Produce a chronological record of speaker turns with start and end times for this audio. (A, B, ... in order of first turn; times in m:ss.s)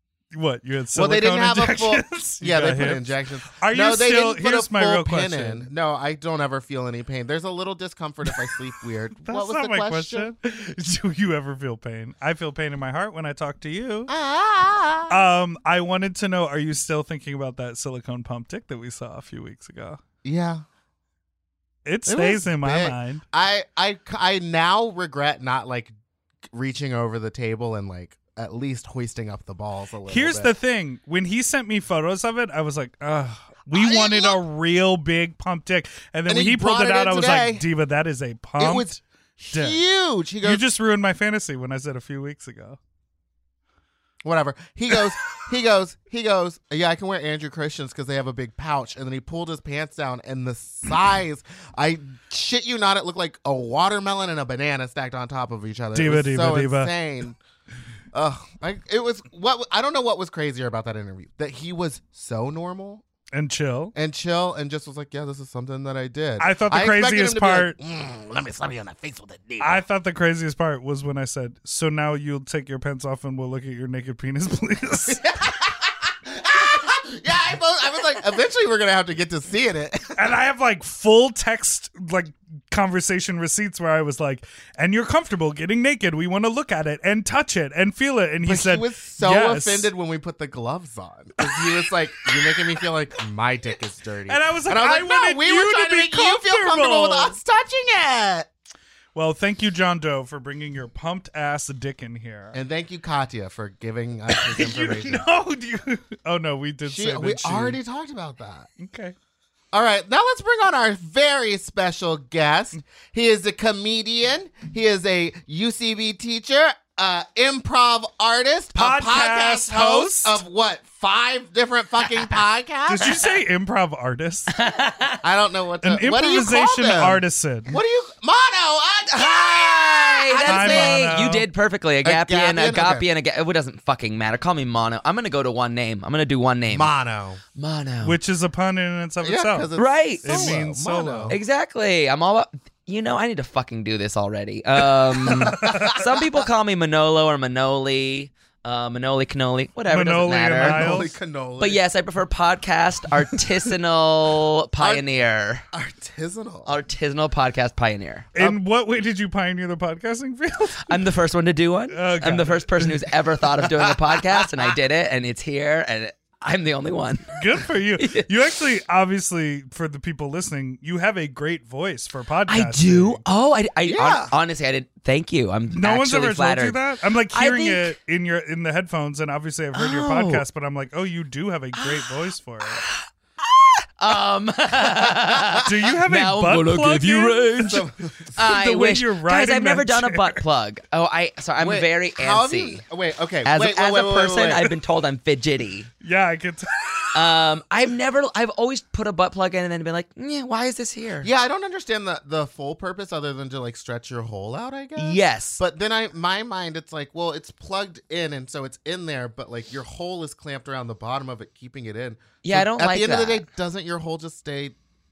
0:00.3-0:05.7 A
0:00.9-0:10.3 B
0:09.2-0:14.1 A
0:14.1-0:15.3 B
0:15.1-0:20.0 A
0:20.2-0:20.6 B
0:21.8-0:23.2 A
0:22.0-0:25.9 B
0:26.5-0:30.5 B
0:30.1-0:39.0 A
0:33.7-0:34.4 B
0:36.3-0:37.6 B
0:38.6-0:40.6 B
0:39.5-0:39.8 A
0:40.4-0:42.8 A
0:44.2-0:57.4 B
0:55.9-0:56.9 A
0:58.1-1:03.0 B
1:03.3-1:03.9 A
1:03.9-1:09.8 B
1:06.4-1:07.8 A
1:09.6-1:15.2 A
1:15.1-1:20.2 B
1:20.1-1:29.9 A
1:28.4-1:38.5 B
1:31.4-1:31.7 A
1:32.2-1:32.6 A
1:34.3-1:37.4 A
1:39.1-1:42.6 A
1:42.5-1:45.2 B
1:44.3-1:47.8 A
1:46.8-1:48.7 B
1:48.8-1:49.2 A
1:49.7-2:03.3 B
1:58.7-2:00.4 A
2:02.9-2:04.5 A
2:04.5-2:05.2 C
2:05.2-2:11.2 B
2:05.8-2:07.8 A
2:09.1-2:16.9 C
2:10.4-2:11.5 A
2:12.0-2:13.1 B
2:16.7-2:17.4 B
2:17.6-2:18.2 C
2:18.0-2:19.7 A
2:19.2-2:21.4 B
2:19.8-2:20.6 C
2:20.2-2:21.4 A
2:21.3-2:31.0 C
2:25.2-2:25.9 A
2:25.2-2:26.1 B
2:29.9-2:31.1 A
2:30.6-2:31.8 B
2:31.6-2:35.6 C
2:34.8-2:35.0 B
2:35.7-2:36.7 B
2:36.6-2:38.3 C
2:38.3-2:41.1 A
2:40.8-2:47.4 C
2:41.9-2:43.2 A
2:47.3-2:53.2 A
2:48.0-2:48.3 C
2:52.5-2:56.8 C
2:53.8-2:54.4 B
2:55.7-3:02.8 A
2:57.3-2:57.9 C
2:59.7-3:00.4 C
3:01.8-3:02.0 C
3:02.8-3:12.8 C
3:05.6-3:10.4 A
3:07.6-3:08.4 B
3:11.6-3:14.7 B
3:13.4-3:15.9 C
3:16.0-3:17.0 A
3:17.1-3:21.3 C
3:21.2-3:34.8 B
3:25.0-3:25.6 C
3:32.4-3:33.4 C